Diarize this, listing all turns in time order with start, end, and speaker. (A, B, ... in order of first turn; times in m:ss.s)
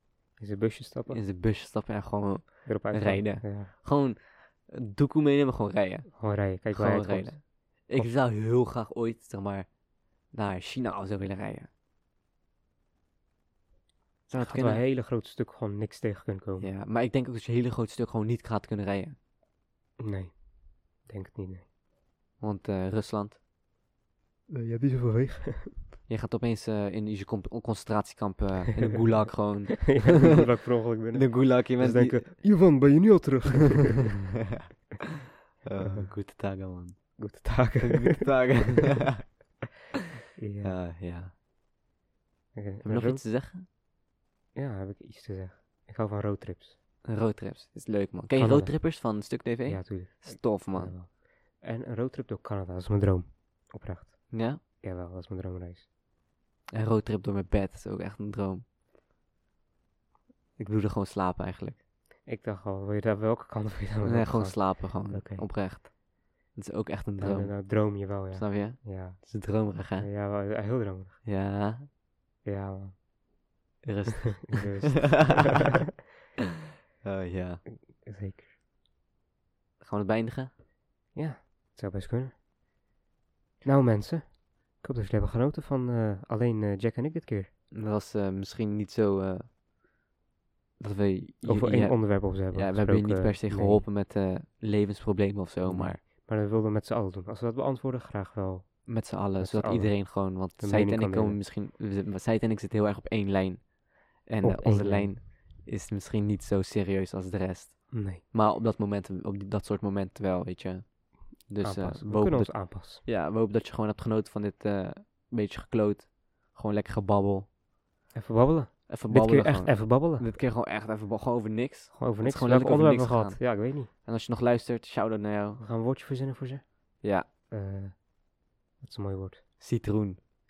0:00.4-0:01.2 A
0:01.1-0:09.7 B
0:02.6-0:03.7 A
0:06.1-0:08.2 A
0:10.3-0:11.7 B
0:14.3-0:14.8 B
0:14.4-0:16.7 A
0:16.6-0:19.2 B
0:20.0-0:21.7 A
0:22.4-0:23.4 B
0:24.5-0:25.8 A
0:26.1-0:30.3 B
0:29.8-0:34.2 A
0:31.1-0:32.6 B
0:35.6-0:39.3 B
0:35.7-0:36.1 A
0:37.2-0:38.7 A
0:40.4-0:40.8 A
0:40.6-0:41.3 B
0:42.5-0:43.3 A
0:42.8-0:43.6 B
0:44.5-0:46.8 A
0:47.0-0:51.0 B
0:48.3-0:55.9 A
0:54.3-0:54.6 B
0:56.7-0:58.6 B
1:00.6-1:01.8 B
1:02.2-1:05.5 A
1:04.0-1:05.9 B
1:06.5-1:10.1 B
1:07.2-1:11.2 A
1:11.2-1:11.9 B
1:12.4-1:13.1 A
1:13.8-1:15.5 B
1:14.4-1:15.6 A
1:17.0-1:17.6 B
1:17.7-1:18.5 A
1:19.8-1:20.5 B
1:21.1-1:22.4 A
1:23.6-1:27.5 A
1:27.7-1:29.5 B
1:30.8-1:36.0 B
1:31.4-1:33.9 A
1:35.6-1:41.4 A
1:38.8-1:57.5 B
1:44.4-1:45.2 A
1:47.9-1:48.2 A
1:51.6-1:53.0 A
1:58.1-2:00.3 A
1:58.9-2:05.6 B
2:01.9-2:03.9 A
2:05.6-2:08.1 A
2:07.0-2:07.3 B
2:08.8-2:09.4 A
2:09.6-2:10.2 B